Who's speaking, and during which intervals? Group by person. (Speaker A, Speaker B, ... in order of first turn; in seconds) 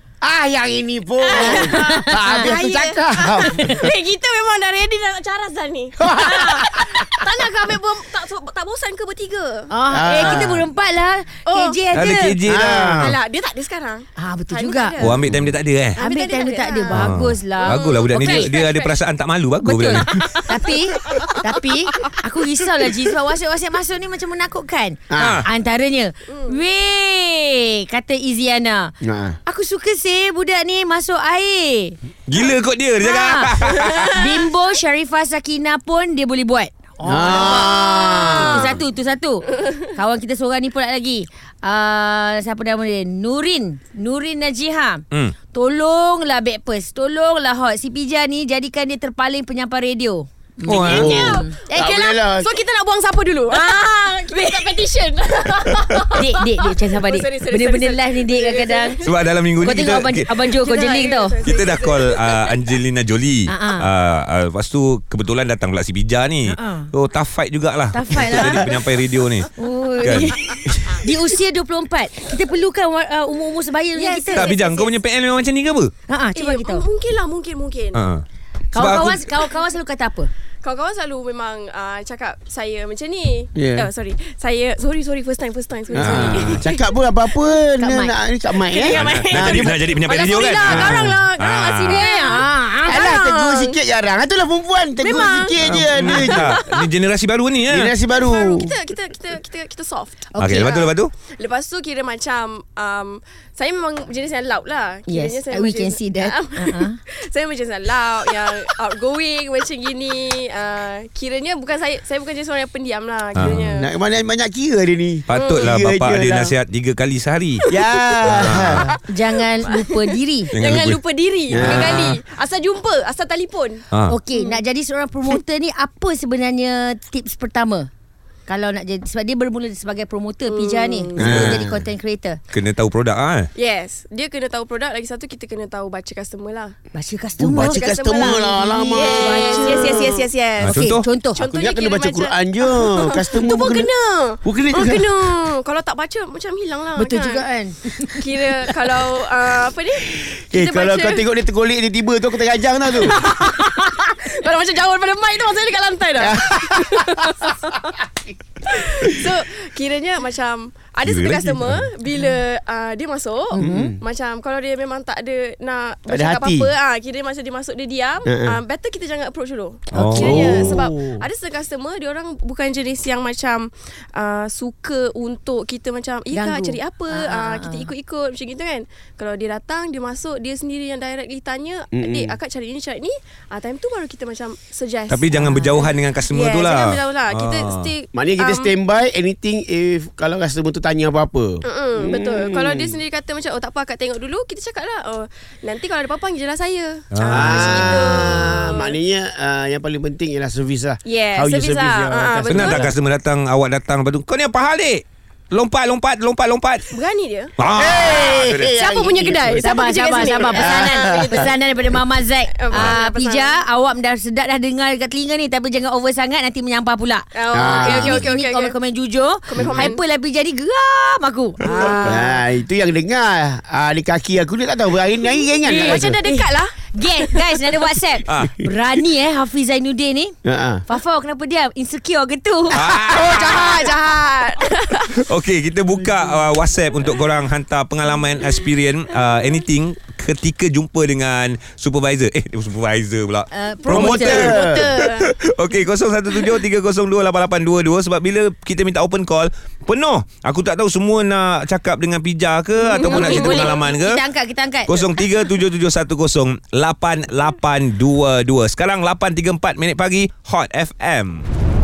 Speaker A: 0.2-3.8, 6.0-7.1, 9.9-10.7, 12.4-13.2, 25.1-25.4, 29.0-29.4, 37.0-38.8, 50.8-52.5, 83.5-83.9, 85.9-89.8, 90.7-91.2, 92.9-96.5, 97.7-98.7, 113.4-116.5, 117.7-118.9, 121.5-122.1, 131.2-131.8, 137.4-140.2, 141.5-143.9, 144.4-145.1, 150.0-153.2, 156.2-157.5, 163.6-164.0, 166.1-166.7, 168.2-168.6, 170.2-171.2, 181.9-182.4, 188.1-193.0, 197.3-202.9, 207.8-209.6, 210.5-211.5, 217.5-218.3, 219.5-219.9, 221.7-226.2, 230.4-230.8, 243.9-244.9
Speaker B: 1.2-10.4, 11.5-11.8, 12.5-19.0, 20.2-20.6, 26.3-26.6, 33.6-34.5, 37.5-38.8, 50.7-59.1, 60.4-62.6, 73.9-75.0, 76.3-78.0, 80.6-86.8, 88.6-93.8, 95.0-96.9, 98.1-113.9, 115.3-115.7, 118.4-124.6, 130.5-131.2, 133.6-136.8, 137.6-147.5, 148.2-151.3, 152.9-157.9, 158.7-188.7, 191.7-199.0, 201.1-202.9, 206.9-207.5, 208.1-211.6, 212.5-213.6, 217.3-218.8, 219.5-220.0, 221.6-222.4, 225.3-227.9, 232.8-235.2, 244.0-245.3, 252.8-253.8
Speaker C: 1.4-2.3, 9.7-12.4, 14.2-15.0, 16.0-18.5, 19.6-28.9, 29.5-32.0, 33.0-33.5, 34.1-51.5, 56.1-59.0, 59.6-61.4, 63.5-63.9, 66.5-66.9, 67.9-68.8, 69.6-74.5, 76.1-76.8, 78.7-80.3, 87.8-88.1, 91.9-93.0, 100.3-100.8, 105.1-107.0, 119.1-120.5, 124.1-127.9, 128.5-132.4, 136.9-141.4, 147.0-148.2, 163.5-163.9, 169.9-170.4, 176.3-177.9, 185.3-185.7, 209.6-222.2, 225.8-230.3, 230.9-232.8, 243.5-244.6, 253.0-255.1
Speaker D: 11.9-13.0, 15.0-16.0, 16.9-20.4, 25.2-25.5, 32.3-34.4, 50.6-51.4, 59.0-60.4, 61.5-69.5, 70.0-70.3, 74.3-75.9, 78.0-79.3, 86.0-86.6, 88.9-92.1, 95.6-97.9, 100.4-101.1, 113.4-113.7, 115.3-117.7, 118.3-118.9, 120.5-121.0, 121.5-122.2, 123.9-124.2, 131.2-131.6, 132.5-133.5, 140.6-141.1, 161.0-161.9, 169.9-170.8, 185.1-187.9, 197.1-198.1, 202.5-206.8, 207.6-208.7, 228.3-228.6, 232.7-233.8, 235.2-254.2, 254.9-261.5